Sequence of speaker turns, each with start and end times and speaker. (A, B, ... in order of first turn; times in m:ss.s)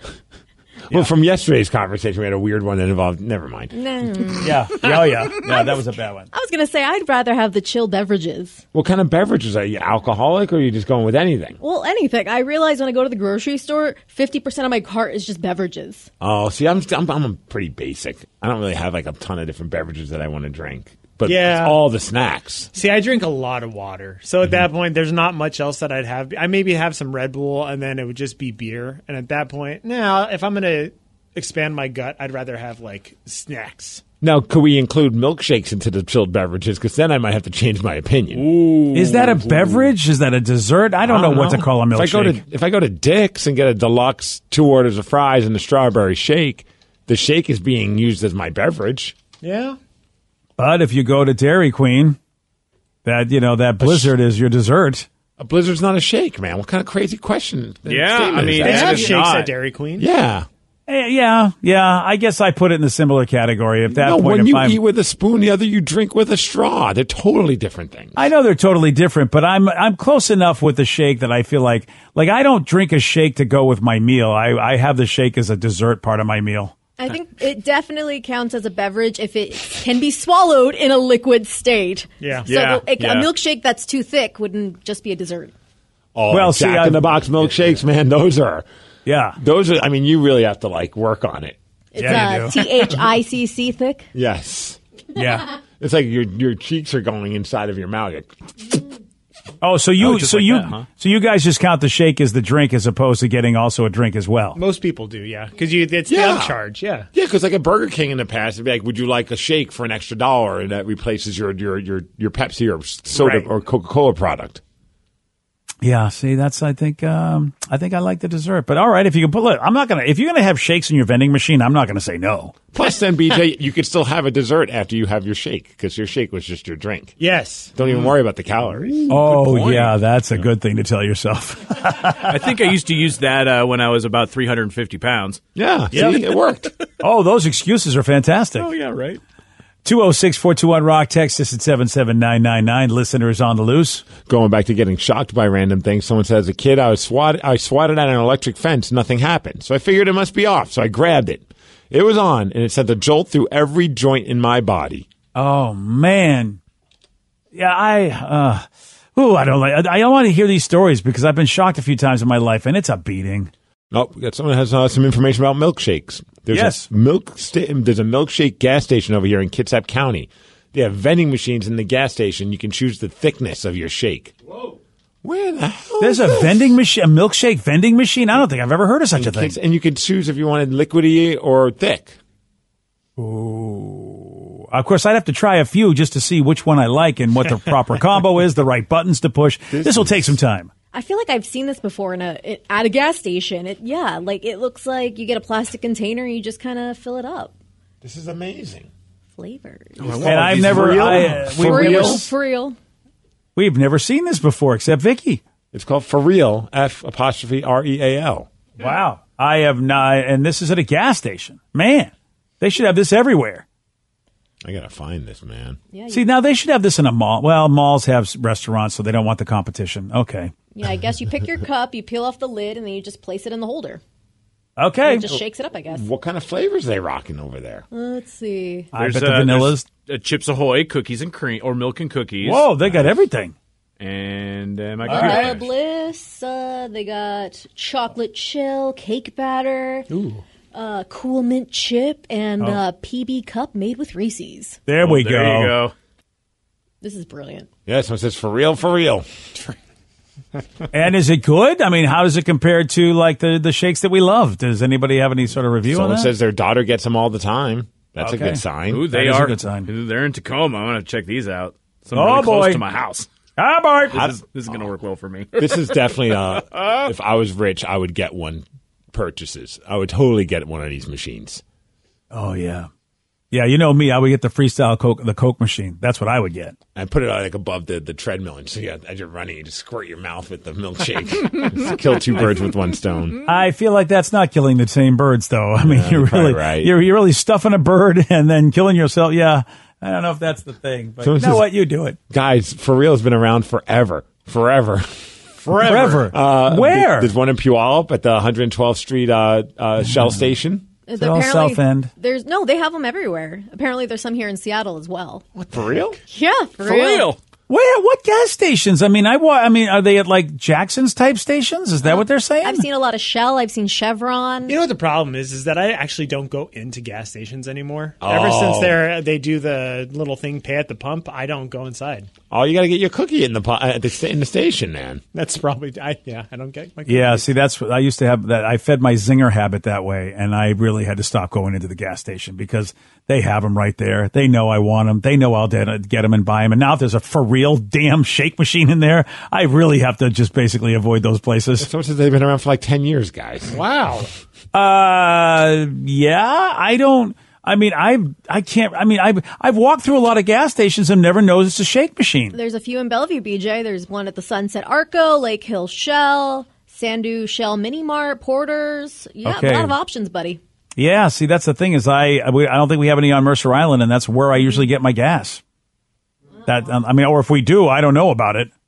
0:00.9-0:03.8 A
0:03.7-0:04.5 B
0:04.4-0:06.3 C
0:06.3-0:08.6 B
0:08.7-0:11.6 A
0:11.6-0:16.1 B
0:16.2-0:22.7 A
0:21.2-0:21.8 D
0:22.7-0:34.0 D
0:34.2-0:38.5 A
0:38.3-0:39.9 E
0:38.9-0:42.4 C
0:41.1-0:49.2 A
0:49.4-0:49.8 D
0:50.6-0:52.2 C
0:53.0-0:55.1 C
0:53.8-0:54.1 A
0:55.4-0:59.2 A
0:57.9-0:59.5 E
0:58.2-1:00.1 D
1:00.0-1:00.5 A
1:00.9-1:04.8 C
1:03.9-1:08.2 A
1:08.2-1:16.7 C
1:17.0-1:25.5 B
1:22.2-1:22.5 D
1:22.5-1:23.3 E
1:26.2-1:28.7 A
1:26.3-1:27.1 C
1:29.1-1:29.4 C
1:29.4-1:31.6 A
1:31.9-1:34.1 B
1:32.0-1:32.6 C
1:34.1-1:34.8 A
1:35.2-1:35.5 C
1:35.8-1:38.3 A
1:39.6-1:44.6 C
1:40.0-1:40.9 E
1:44.6-1:47.1 D
1:46.1-1:46.6 A
1:47.1-1:54.6 A
1:53.2-1:53.5 D
1:55.8-2:02.6 C
2:02.7-2:07.2 A
2:07.2-2:07.7 D
2:07.7-2:09.0 A
2:07.9-2:08.1 E
2:08.8-2:10.0 E
2:09.1-2:12.3 C
2:12.2-2:16.4 E
2:15.6-2:16.7 A
2:17.0-2:18.7 C
2:18.6-2:19.2 E
2:19.8-2:24.1 C
2:24.3-2:35.1 A
2:35.4-2:36.6 C
2:37.5-2:43.5 C
2:43.9-2:54.4 A
2:46.5-2:46.9 C
2:55.2-2:56.8 A
2:56.0-2:59.6 C
2:59.2-3:02.2 A
3:03.2-3:10.7 C
3:09.7-3:10.4 A
3:10.9-3:17.5 B
3:18.0-3:18.9 A
3:19.4-3:22.8 B
3:20.0-3:21.2 E
3:20.1-3:22.2 A
3:20.2-3:22.3 C
3:23.6-3:25.4 C
3:25.7-3:28.5 A
3:28.8-3:33.6 C
3:34.6-3:35.8 A
3:35.9-3:36.2 B
3:36.1-3:40.5 C
3:40.7-3:44.0 B
3:44.8-3:45.3 C
3:45.0-3:46.1 B
3:45.3-3:47.9 A
3:47.9-3:48.9 B
3:48.9-3:49.9 C
3:49.0-3:53.0 E
3:52.4-3:53.5 C
3:54.0-3:55.7 E
3:55.1-3:55.6 C
3:55.1-4:00.1 B
4:00.1-4:00.4 C
4:00.7-4:04.8 B
4:04.9-4:05.8 C
4:05.0-4:05.9 E
4:07.0-4:07.7 B
4:07.9-4:09.3 A
4:10.9-4:16.3 C
4:15.9-4:19.1 A
4:18.2-4:19.9 C
4:18.9-4:23.3 E
4:22.2-4:22.8 C
4:23.6-4:24.3 C
4:24.1-4:27.1 E
4:25.6-4:31.6 A
4:32.3-4:32.9 C
4:33.5-4:36.8 C
4:37.0-4:43.4 A
4:43.5-4:52.2 C
4:45.8-4:46.9 A
4:51.2-4:51.7 A
4:52.3-5:00.8 A
4:55.8-4:56.2 D
4:55.8-4:57.3 C
5:01.1-5:05.4 B
5:01.2-5:02.1 C
5:05.6-5:06.2 A
5:06.3-5:07.3 B
5:06.8-5:07.4 E
5:07.7-5:12.8 C
5:12.1-5:14.8 B
5:14.7-5:22.3 D
5:18.2-5:19.0 A
5:22.5-5:25.2 A
5:25.3-5:27.5 D
5:27.1-5:41.9 C
5:41.8-5:43.8 A
5:43.7-5:44.3 D
5:44.7-5:52.6 C
5:52.5-6:00.6 B
5:59.4-6:00.0 C
6:01.0-6:05.6 C
6:06.6-6:08.7 C